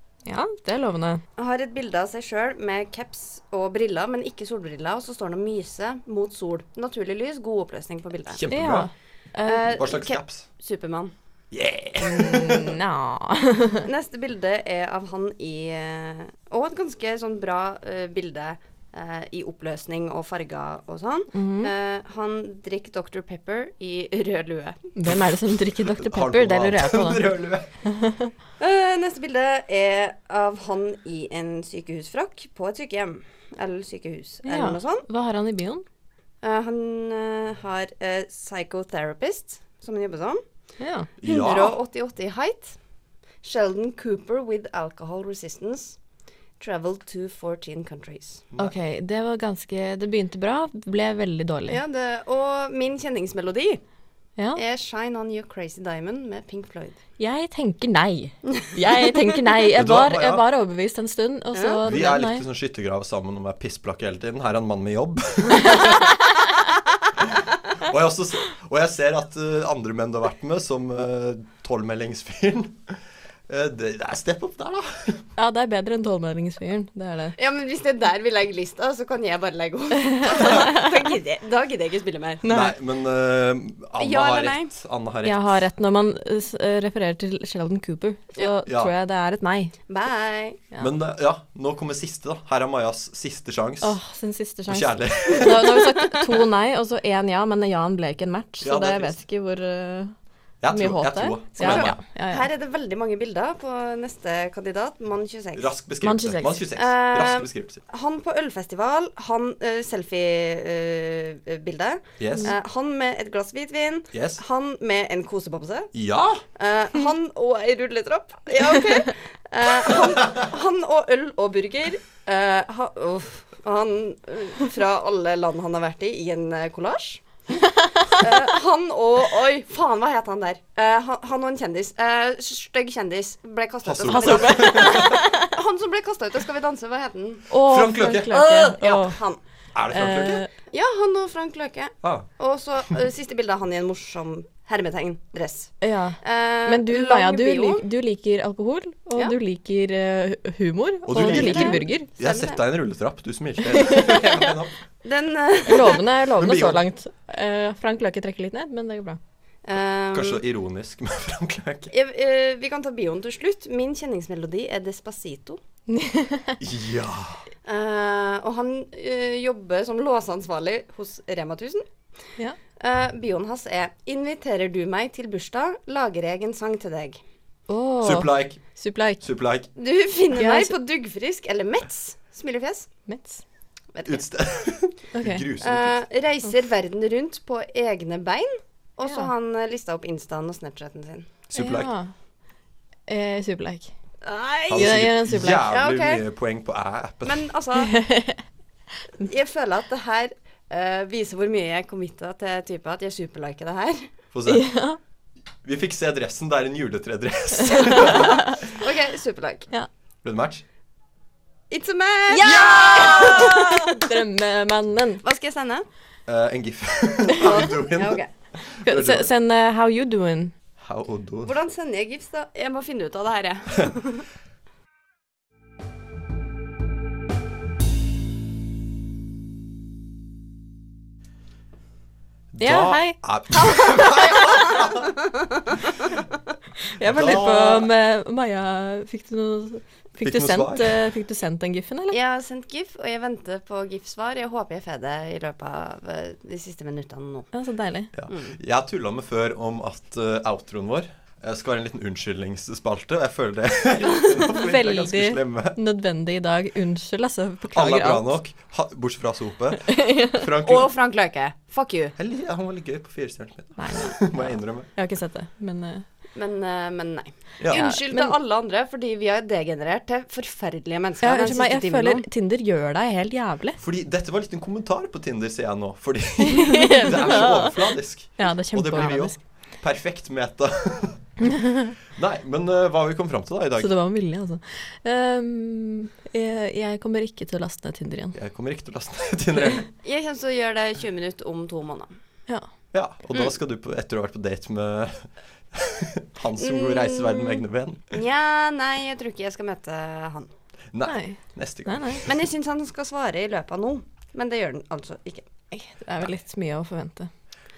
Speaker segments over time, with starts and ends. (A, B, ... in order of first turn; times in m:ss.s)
0:00.3-0:01.2 A
0:01.4-0:08.4 B
0:08.3-0:08.9 C
0:08.5-0:09.8 A
0:09.4-0:11.1 B
0:09.8-0:10.5 C
0:11.5-0:12.8 C
0:12.0-0:13.9 A
0:13.9-0:24.9 B
0:21.3-0:21.7 A
0:25.0-0:27.3 A
0:26.0-0:27.7 C
0:27.8-0:28.3 A
0:28.6-0:35.1 B
0:34.5-0:35.8 A
0:36.4-0:40.4 B
0:40.8-0:41.1 A
0:41.2-0:41.8 C
0:41.2-0:42.8 B
0:43.4-0:46.0 B
0:46.6-0:48.5 B
0:48.6-0:51.8 A
0:51.7-0:53.8 B
0:54.6-0:57.0 B
0:57.2-1:02.4 A
0:59.8-1:00.4 C
1:01.5-1:01.8 B
1:01.9-1:06.2 C
1:07.2-1:13.0 C
1:13.5-1:15.2 C
1:15.4-1:17.4 A
1:17.4-1:22.5 B
1:20.1-1:21.0 A
1:22.4-1:22.7 A
1:22.5-1:25.5 C
1:24.0-1:24.7 B
1:25.2-1:29.7 A
1:28.7-1:28.9 C
1:29.9-1:30.6 B
1:30.8-1:34.0 C
1:33.8-1:40.2 A
1:34.7-1:36.0 C
1:38.6-1:39.2 C
1:40.6-1:42.0 C
1:40.7-1:42.5 A
1:41.6-1:45.7 B
1:45.6-1:47.8 C
1:46.0-1:46.6 A
1:46.8-1:55.9 B
1:52.2-1:52.5 C
1:54.1-1:54.4 C
1:55.9-1:56.4 C
1:56.6-2:07.2 B
2:07.8-2:08.0 A
2:08.1-2:17.5 B
2:13.8-2:15.2 C
2:14.1-2:15.5 A
2:17.5-2:19.2 A
2:17.6-2:18.4 C
2:18.3-2:19.4 B
2:19.7-2:20.4 C
2:19.9-2:20.5 A
2:20.7-2:27.8 B
2:22.0-2:22.3 C
2:25.8-2:32.1 A
2:31.1-2:34.8 C
2:31.2-2:32.6 B
2:33.7-2:34.3 A
2:35.0-2:36.0 B
2:35.7-2:39.2 A
2:36.4-2:36.8 C
2:39.6-2:40.4 B
2:40.1-2:41.9 C
2:41.9-2:45.6 B
2:45.9-2:46.6 A
2:46.6-2:47.4 C
2:47.7-2:51.9 B
2:52.8-2:57.2 B
2:57.7-2:59.2 A
2:58.0-2:58.6 C
2:59.2-2:59.7 C
2:59.8-3:02.9 B
3:00.4-3:00.8 A
3:03.1-3:03.4 A
3:03.9-3:04.2 B
3:04.0-3:06.0 C
3:05.1-3:05.5 A
3:05.6-3:11.3 B
3:11.5-3:11.9 C
3:11.6-3:12.1 A
3:13.1-3:13.9 A
3:14.2-3:16.2 B
3:14.7-3:17.5 C
3:14.7-3:15.7 A
3:17.2-3:18.0 B
3:17.8-3:18.4 A
3:19.2-3:24.1 B
3:24.3-3:24.7 C
3:24.5-3:25.0 A
3:25.6-3:28.6 C
3:27.7-3:28.5 A
3:28.0-3:29.7 B
3:30.2-3:30.6 C
3:31.7-3:34.1 B
3:32.3-3:35.2 A
3:32.4-3:33.6 C
3:35.2-3:35.9 B
3:36.3-3:39.3 C
3:37.4-3:38.3 B
3:38.8-3:40.6 A
3:40.8-3:41.5 C
3:41.4-3:44.3 B
3:52.5-3:55.1 C
3:52.6-3:54.6 A
3:53.7-3:55.8 B
3:56.9-4:02.2 A
3:57.0-3:57.9 C
4:00.2-4:01.0 C
4:02.1-4:07.5 B
4:07.5-4:08.1 A
4:08.1-4:15.8 C
4:08.3-4:08.6 B
4:14.3-4:18.4 A
4:17.7-4:20.9 C
4:19.8-4:20.5 A
4:20.6-4:22.2 B
4:22.2-4:24.9 C
4:23.8-4:26.0 A
4:26.4-4:32.3 B
4:27.6-4:27.9 C
4:27.7-4:28.4 A
4:31.2-4:33.8 A
4:33.8-4:41.2 C
4:36.4-4:39.4 A
4:41.6-4:41.9 A
4:42.1-4:43.9 C
4:43.8-4:48.4 A
4:48.4-4:49.9 C
4:50.0-4:52.1 B
4:52.9-4:58.2 C
4:56.6-5:00.5 B
5:00.9-5:02.4 C
5:01.1-5:02.3 A
5:02.2-5:05.4 B
5:05.7-5:07.3 A